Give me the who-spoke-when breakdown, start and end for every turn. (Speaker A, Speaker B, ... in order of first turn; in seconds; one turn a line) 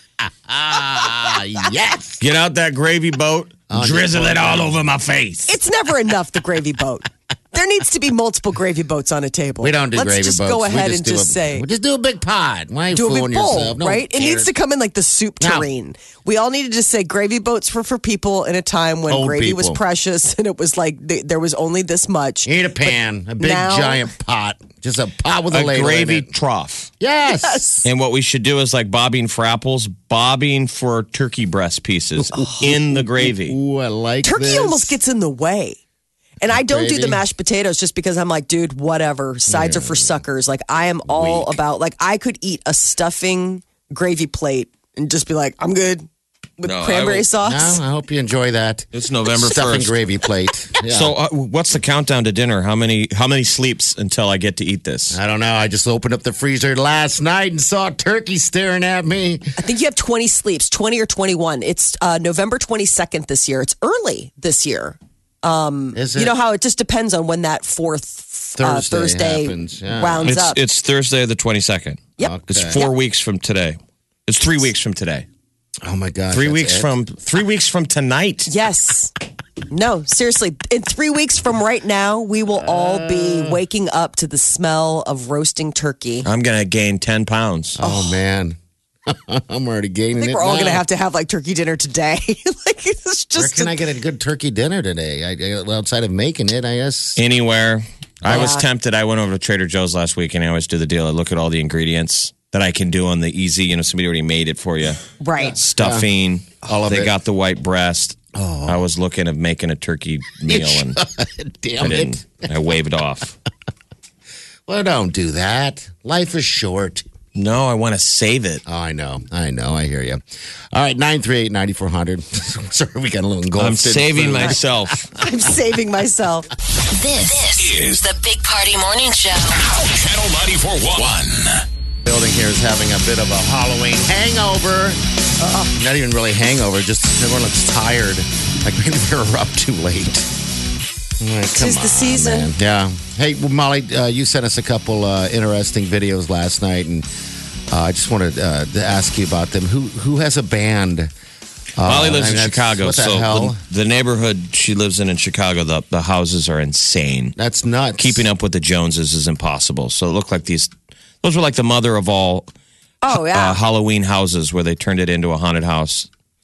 Speaker A: 0.5-2.2
Speaker B: 2.2-5.5
Speaker A: 3.7-5.0
Speaker C: 5.5-11.7
Speaker A: 9.6-14.5
Speaker C: 12.9-24.1
Speaker A: 15.4-15.7
Speaker A: 19.1-19.8
Speaker A: 22.4-26.3
Speaker B: 25.5-26.9
Speaker A: 27.0-27.9
Speaker B: 27.8-33.6
Speaker A: 32.2-35.0
Speaker C: 34.2-35.8
Speaker C: 36.4-46.1
Speaker A: 36.5-37.2
Speaker A: 39.5-40.2
Speaker A: 41.1-41.6
Speaker C: 46.6-47.8
Speaker B: 46.6-47.3
Speaker A: 47.4-51.1
Speaker B: 48.9-49.9
Speaker B: 50.9-55.2
Speaker A: 55.1-59.5
Speaker C: 59.6-70.6
Speaker A: 65.9-66.3
Speaker A: 68.6-70.3
Speaker B: 70.2-75.2
Speaker C: 72.2-72.9
Speaker A: 72.2-72.8
Speaker A: 75.8-76.9
Speaker B: 76.3-78.5
Speaker C: 78.5-79.1
Speaker C: 79.7-86.3
Speaker A: 82.6-83.6
Speaker B: 86.2-87.8
Speaker A: 87.7-90.8
Speaker C: 87.8-88.2
Speaker C: 90.2-93.8
Speaker A: 93.3-97.2
Speaker B: 97.2-105.0
Speaker C: 98.2-98.7
Speaker C: 105.2-105.6
Speaker B: 105.5-111.0
Speaker A: 105.8-106.0
Speaker A: 106.6-107.1
Speaker A: 108.3-108.8
Speaker A: 110.5-112.4
Speaker B: 111.8-113.3
Speaker A: 114.7-117.0
Speaker B: 117.3-118.6
Speaker A: 118.6-120.2
Speaker A: 120.7-124.6
Speaker B: 123.5-125.1
Speaker C: 125.2-126.5
Speaker D: 126.9-129.6
Speaker E: 127.5-128.0
Speaker E: 129.6-131.6
Speaker A: 132.1-135.0
Speaker C: 135.4-135.7
Speaker A: 135.7-140.3
Speaker A: 141.2-147.1
Speaker C: 141.5-142.5
Speaker A: 147.7-151.1
Speaker A: 151.8-153.6
Speaker B: 151.8-157.3
Speaker A: 157.3-158.2
Speaker B: 158.0-162.5
Speaker C: 163.0-163.6
Speaker B: 163.1-166.1